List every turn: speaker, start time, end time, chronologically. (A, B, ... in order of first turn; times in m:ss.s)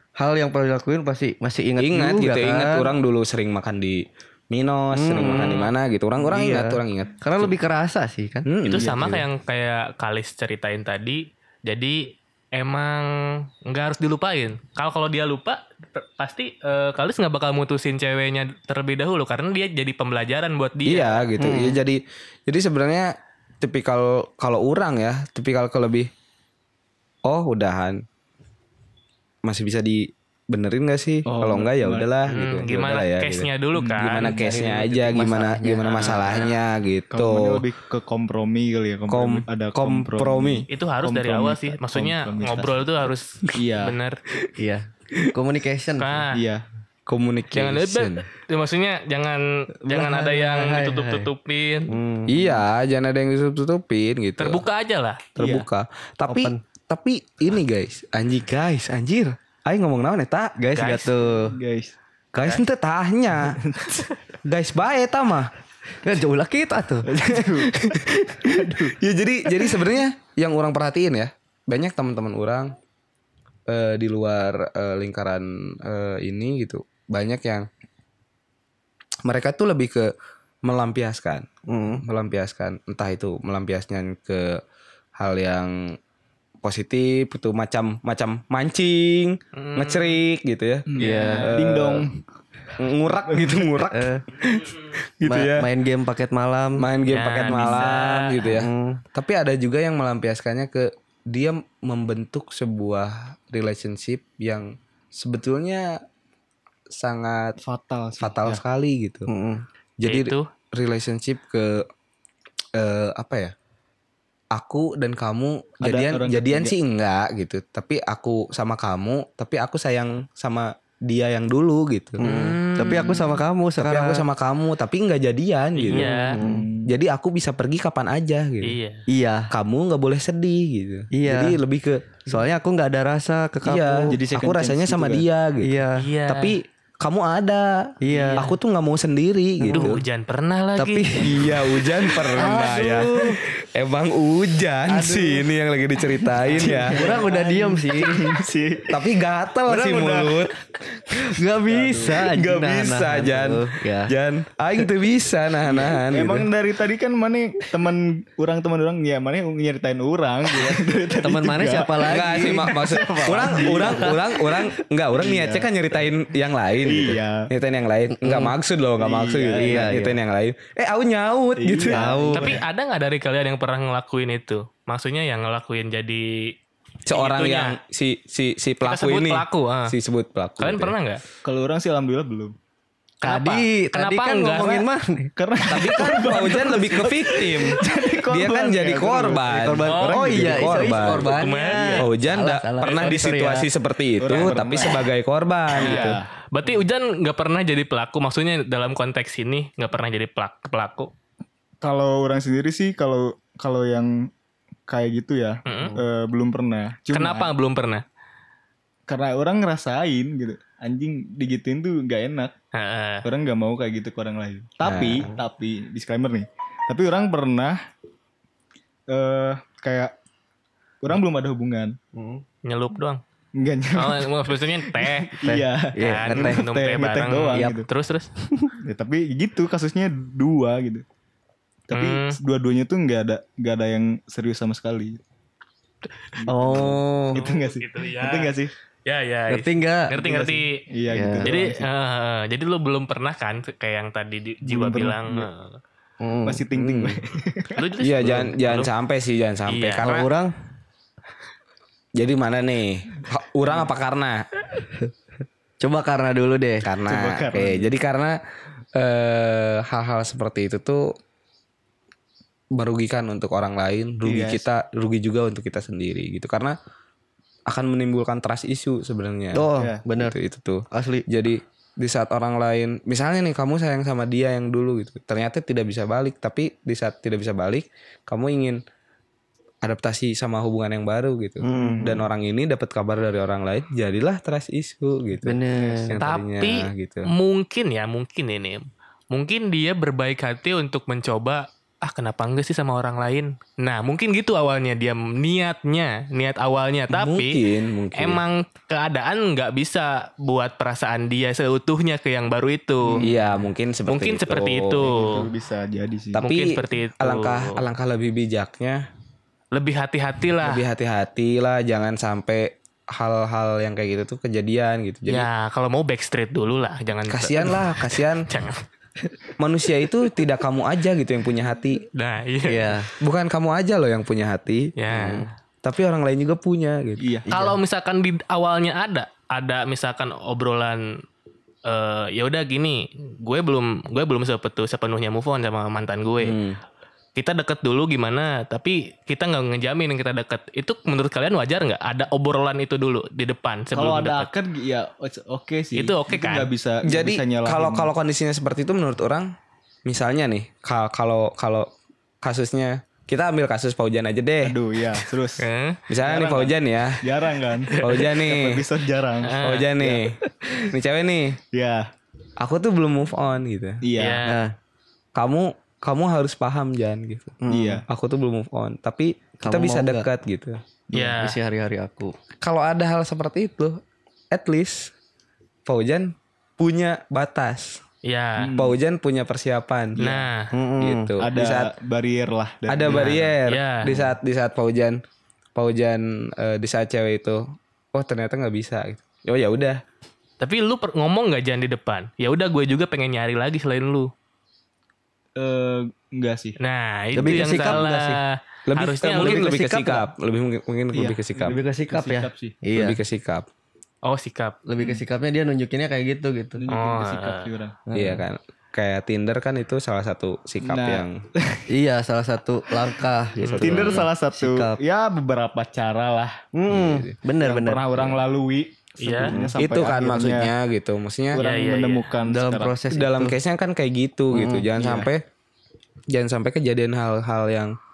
0:00.2-0:02.9 A
0:01.8-0:07.6 B
0:04.9-0:05.7 A
0:06.2-0:08.5 A
0:08.5-0:09.2 B
0:08.6-0:21.3 C
0:20.8-0:26.1 B
0:21.4-0:21.8 A
0:27.2-0:28.0 B
0:29.4-0:37.6 B
0:31.3-0:32.1 D
0:32.3-0:34.4 C
0:33.8-0:34.4 D
0:34.3-0:36.1 A
0:35.8-0:36.5 C
0:37.1-0:42.9 D
0:39.1-0:40.7 B
0:40.7-0:44.2 C
0:43.5-0:44.0 D
0:44.6-0:46.3 A
0:46.0-0:46.4 C
0:46.3-0:46.6 D
0:47.1-0:48.2 B
0:47.5-0:51.9 C
0:49.9-0:51.3 A
0:51.9-0:52.4 A
0:52.3-0:54.6 B
0:54.4-0:55.3 C
0:55.4-1:00.6 B
0:56.3-0:56.6 A
1:00.6-1:01.6 A
1:00.8-1:01.2 C
1:01.5-1:02.0 D
1:02.3-1:03.6 B
1:03.5-1:04.0 D
1:04.4-1:05.5 B
1:06.0-1:07.1 A
1:07.0-1:09.0 D
1:07.3-1:12.8 B
1:13.7-1:17.7 B
1:19.2-1:20.1 B
1:20.6-1:21.5 B
1:21.7-1:22.0 A
1:22.0-1:24.6 B
1:25.2-1:26.0 B
1:26.6-1:32.1 B
1:29.6-1:30.2 C
1:30.9-1:32.2 D
1:31.0-1:31.6 A
1:32.8-1:35.7 B
1:33.3-1:33.6 D
1:33.9-1:34.2 A
1:35.3-1:36.9 A
1:36.8-1:46.0 B
1:37.1-1:38.4 C
1:38.4-1:39.0 A
1:46.9-1:47.6 B
1:47.6-1:48.6 D
1:48.2-1:49.3 B
1:49.3-1:49.6 A
1:50.0-1:51.8 B
1:50.0-1:50.5 C
1:52.8-1:53.5 B
1:54.5-2:02.3 B
1:55.8-1:56.7 D
2:02.2-2:04.2 A
2:02.2-2:03.4 C
2:03.8-2:06.1 B
2:05.8-2:06.4 C
2:05.9-2:06.7 A
2:06.4-2:06.9 D
2:06.8-2:08.8 B
2:08.6-2:09.0 C
2:09.1-2:09.5 A
2:09.5-2:12.2 B
2:11.1-2:11.6 A
2:12.3-2:14.1 A
2:13.6-2:20.0 B
2:14.1-2:15.2 D
2:15.6-2:16.0 A
2:16.0-2:16.6 C
2:18.0-2:18.5 A
2:18.1-2:18.4 D
2:19.7-2:19.9 A
2:19.7-2:21.3 C
2:20.8-2:23.4 A
2:21.2-2:27.0 B
2:25.0-2:25.3 D
2:26.4-2:29.1 D
2:26.6-2:28.2 A
2:28.9-2:31.2 B
2:29.7-2:30.2 A
2:29.7-2:30.3 D
2:31.1-2:34.1 A
2:31.7-2:32.3 D
2:32.2-2:36.5 B
2:35.7-2:44.2 D
2:40.6-2:44.5 A
2:42.0-2:52.1 B
2:45.2-2:45.7 D
2:46.8-2:47.5 D
2:48.2-2:48.5 A
2:49.0-2:49.9 D
2:49.6-2:50.2 A
2:51.6-2:52.6 D
2:51.9-2:52.6 A
2:52.3-2:56.5 C
2:57.1-3:01.0 B
2:57.1-2:57.8 C
2:58.8-2:59.9 C
3:00.6-3:01.2 C
3:01.4-3:02.6 D
3:03.2-3:04.9 C
3:03.2-3:05.3 A
3:05.4-3:12.0 D
3:05.7-3:11.4 B
3:09.4-3:13.7 A
3:09.9-3:10.3 C
3:11.2-3:12.1 C
3:12.0-3:16.2 B
3:14.2-3:15.1 D
3:15.7-3:16.3 D
3:15.8-3:21.1 C
3:21.8-3:24.3 D
3:24.9-3:27.5 D
3:25.7-3:26.0 C
3:27.1-3:28.0 C
3:29.1-3:32.5 D
3:32.7-3:33.3 C
3:33.2-3:37.8 D
3:34.8-3:35.3 B
3:39.1-3:40.2 D
3:41.0-3:42.0 D
3:42.1-3:42.4 A
3:42.6-3:43.2 C
3:43.6-3:47.9 D
3:43.9-3:45.4 C
3:45.4-3:46.6 A
3:46.0-3:48.3 C
3:47.5-3:47.8 A
3:48.8-3:51.0 D
3:51.9-3:55.2 D
3:51.9-3:52.4 C
3:56.4-3:58.7 D
3:56.5-3:57.4 A
3:57.3-4:00.8 C
3:59.5-4:00.1 A
4:00.1-4:01.9 D
4:01.1-4:01.6 A
4:01.4-4:05.8 C
4:04.6-4:05.5 D
4:06.2-4:07.1 A
4:06.5-4:07.8 D
4:06.8-4:07.1 B
4:07.7-4:08.9 C
4:08.0-4:10.3 B
4:09.7-4:10.1 C
4:10.0-4:10.5 A
4:12.2-4:14.4 B
4:15.8-4:16.9 A
4:16.8-4:18.4 B
4:17.1-4:17.9 D
4:19.0-4:21.2 B
4:22.7-4:26.8 B
4:24.2-4:24.6 D
4:27.7-4:38.8 B
4:29.5-4:30.4 A
4:29.8-4:30.0 D
4:30.9-4:31.3 A
4:39.8-4:47.3 B
4:41.6-4:42.2 A
4:41.7-4:42.2 D
4:45.4-4:46.2 A
4:46.2-4:57.6 C
4:57.1-4:58.4 B
4:58.2-5:03.3 C
5:03.2-5:05.1 B
5:04.1-5:05.5 C
5:05.0-5:06.4 D
5:06.3-5:09.0 B
5:06.4-5:07.8 C
5:09.7-5:10.8 C
5:10.6-5:15.5 B
5:15.3-5:18.8 C
5:17.3-5:18.5 B
5:19.6-5:22.0 B
5:22.2-5:23.0 C
5:22.6-5:23.1 A
5:23.2-5:27.3 B
5:25.0-5:25.5 C
5:25.1-5:25.5 A
5:27.2-5:27.5 D
5:27.5-5:31.1 C
5:27.5-5:27.8 A
5:31.9-5:36.6 C
5:36.4-5:36.8 B
5:37.4-5:44.5 C
5:43.9-5:48.1 D
5:45.9-5:46.7 C
5:47.0-5:49.5 B
5:50.1-5:51.9 B
5:52.4-5:54.8 B
5:54.6-5:55.7 D
5:55.6-5:56.0 C
5:56.1-5:57.3 B
5:56.2-6:00.2 D
5:57.9-5:58.3 C
5:58.0-5:58.9 B
5:59.4-5:59.9 C
5:59.6-6:01.6 B
6:01.7-6:02.1 D
6:02.6-6:04.0 B
6:04.0-6:04.4 D
6:04.2-6:04.6 C
6:04.5-6:04.7 A
6:05.4-6:10.8 B
6:07.6-6:08.0 A
6:07.7-6:08.0 D
6:09.6-6:10.3 A
6:11.1-6:11.4 D
6:11.1-6:11.6 C
6:11.3-6:12.3 A
6:12.6-6:14.0 B
6:14.5-6:15.1 B
6:15.9-6:18.0 B
6:18.2-6:18.7 C
6:18.6-6:19.0 D
6:18.8-6:20.2 B
6:20.2-6:20.5 D
6:20.2-6:20.7 C
6:20.7-6:21.4 A
6:21.0-6:21.9 B
6:21.4-6:23.4 D
6:22.9-6:25.2 B
6:23.0-6:24.3 C
6:25.8-6:30.0 B
6:30.6-6:34.3 C
6:35.6-6:36.8 D
6:36.8-6:40.2 C
6:37.4-6:38.4 A
6:37.4-6:38.0 B
6:38.9-6:41.8 B
6:39.4-6:39.9 A
6:41.1-6:42.8 D
6:41.6-6:43.2 A
6:42.9-6:43.7 B
6:44.2-6:44.8 C
6:44.9-6:46.8 A
6:46.8-6:48.0 D
6:46.9-6:47.7 C
6:48.1-6:48.4 A
6:48.2-6:51.4 B
6:50.8-6:51.8 D
6:51.9-6:55.0 A
6:52.9-6:53.2 D
6:53.6-6:54.2 C
6:53.6-6:54.3 B
6:53.8-6:56.6 D
6:56.7-6:58.4 A
6:56.9-6:57.4 B
6:57.6-7:00.7 D
6:59.2-6:59.6 C
6:59.5-6:59.7 A
6:59.8-7:01.6 B
7:01.5-7:02.9 D
7:01.6-7:02.3 C
7:02.5-7:03.6 A
7:03.1-7:05.5 B
7:04.5-7:05.2 A
7:06.3-7:08.0 B